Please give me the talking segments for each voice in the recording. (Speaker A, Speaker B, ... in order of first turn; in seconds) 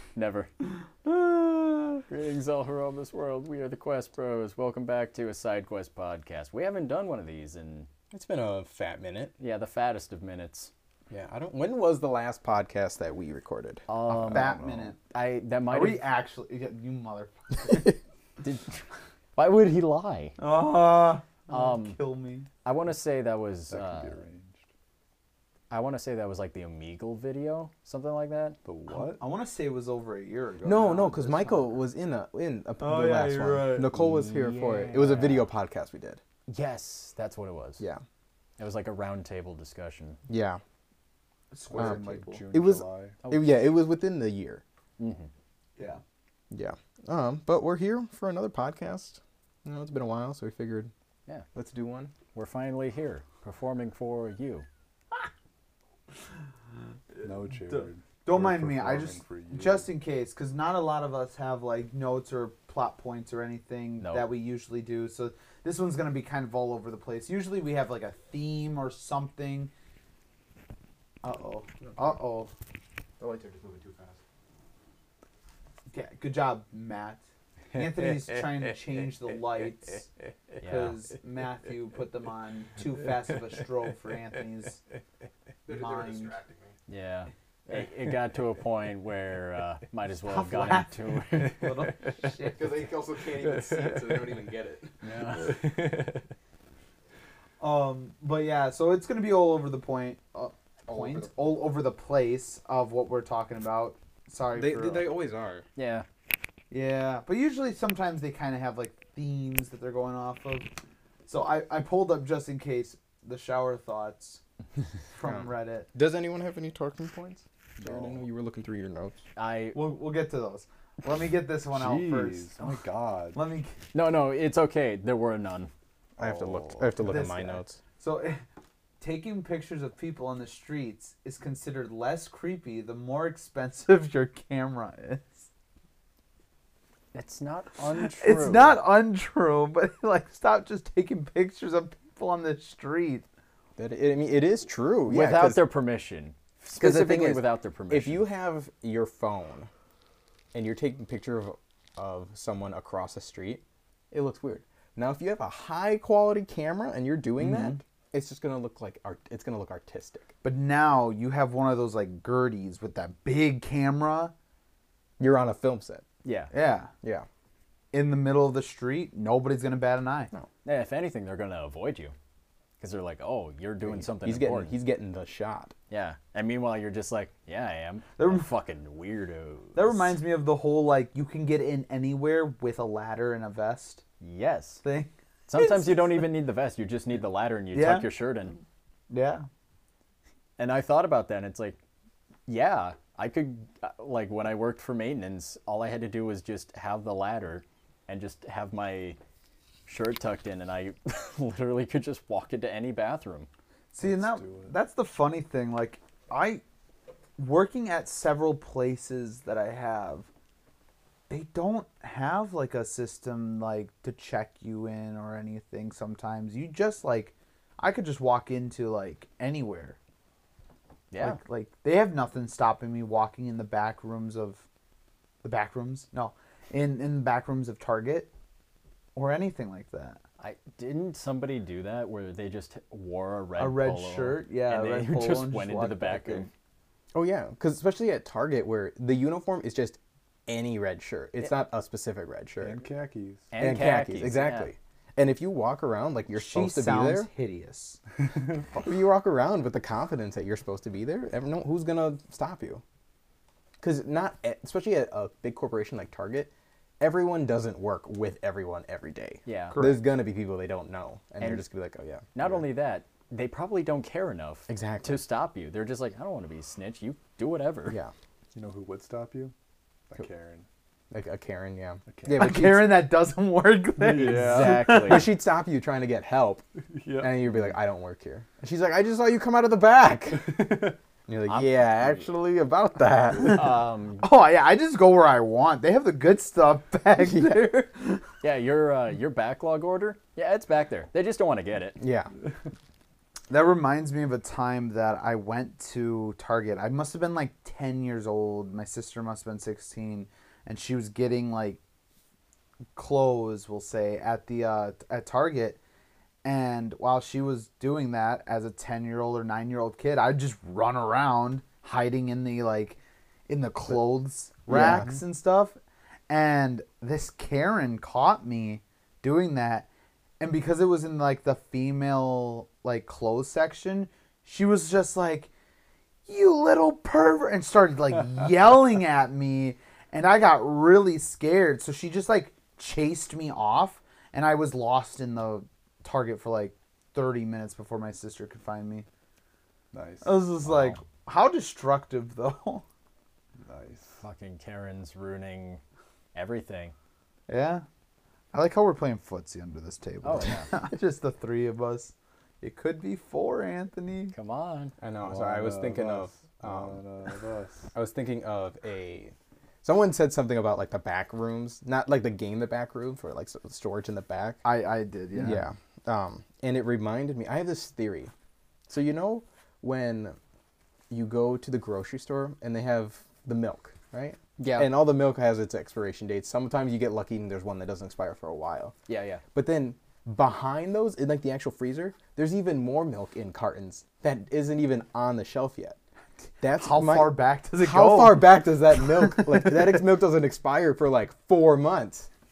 Speaker A: 0.1-0.5, 2.1-7.9, 9.4-10.7, 13.9-16.0, 18.4-18.8, 19.4-20.4, 21.5-22.0, 22.6-24.2, 25.7-28.6, 33.9-35.5, 36.5-37.8, 38.6-40.2, 43.2-43.6, 45.0-45.3, 52.3-54.6, 64.0-64.3, 80.6-81.0, 86.9-91.7, 95.0-96.0, 105.8-106.0, 119.3-119.8, 123.9-125.7, 137.1-138.8, 145.1-148.3, 166.2-166.5, 170.6-172.1, 172.8-174.7, 175.9-180.1, 184.2-184.8, 185.5-188.6, 190.6-191.8, 192.5-199.2, 199.9-203.5, 221.1-221.4, 230.4-236.5, 243.5-244.7, 259.4-259.8, 262.3-268.0, 274.0-275.3, 283.4-284.2, 288.4-292.0, 340.6-340.9, 344.2-345.8, 346.3-346.9, 350.2-350.7, 354.3-354.9, 374.6-374.9, 379.1-379.4
Speaker B: 1.0-2.0, 14.2-15.0, 15.7-18.0, 20.4-22.5, 29.1-31.8, 32.8-33.9, 41.5-42.4, 57.2-69.7, 71.2-72.5, 75.9-80.1, 80.6-84.8, 85.7-86.3, 90.2-92.7, 97.6-105.1, 106.7-110.7, 111.3-114.4, 115.1-115.9, 119.7-122.6, 123.3-123.8, 127.0-128.4, 129.0-135.5, 138.2-143.2, 157.4-157.8, 160.4-164.3, 166.5-166.9, 167.9-170.3, 178.2-178.4, 179.7-184.0, 184.8-186.2, 187.7-188.1, 189.1-189.5, 203.9-206.6, 207.4-210.3, 211.3-220.0, 221.2-224.6, 225.4-228.3, 229.1-230.2, 233.6-236.5, 246.3-248.0, 259.7-260.0, 272.3-275.3, 284.2-288.2, 293.5-301.8, 302.9-305.8, 306.4-315.8, 316.3-319.9, 320.4-325.5, 326.3-339.1, 340.2-342.8, 347.5-347.8, 348.5-354.3, 364.6-365.6, 386.8-390.0
Speaker C: 8.1-9.3, 11.1-14.9, 30.6-36.2, 40.3-40.6, 41.8-44.6, 46.5-50.9, 51.5-52.1, 73.2-74.1, 85.7-86.7, 92.5-94.9, 100.9-101.3, 104.5-105.6, 115.2-119.2, 126.2-127.8, 143.8-145.6, 146.8-149.7, 150.5-160.3, 165.2-166.0, 173.9-175.7, 237.1-242.8, 243.6-247.3, 248.7-252.8, 253.8-262.5, 264.7-265.2, 271.1-273.0, 274.4-276.6, 277.2-283.6, 287.2-287.6, 292.0-292.3, 314.7-315.1, 355.0-357.0, 357.9-364.6, 365.3-368.3, 368.9-370.4, 371.1-378.9, 379.5-386.0, 386.6-392.3
Speaker D: 23.7-24.6, 28.6-29.2, 41.7-43.2, 57.2-59.9, 121.7-123.4, 126.2-126.9, 204.0-204.7, 242.6-243.5, 268.5-269.5, 270.1-270.6, 272.1-272.6, 276.9-277.5, 339.9-340.4, 343.6-344.2, 355.2-357.9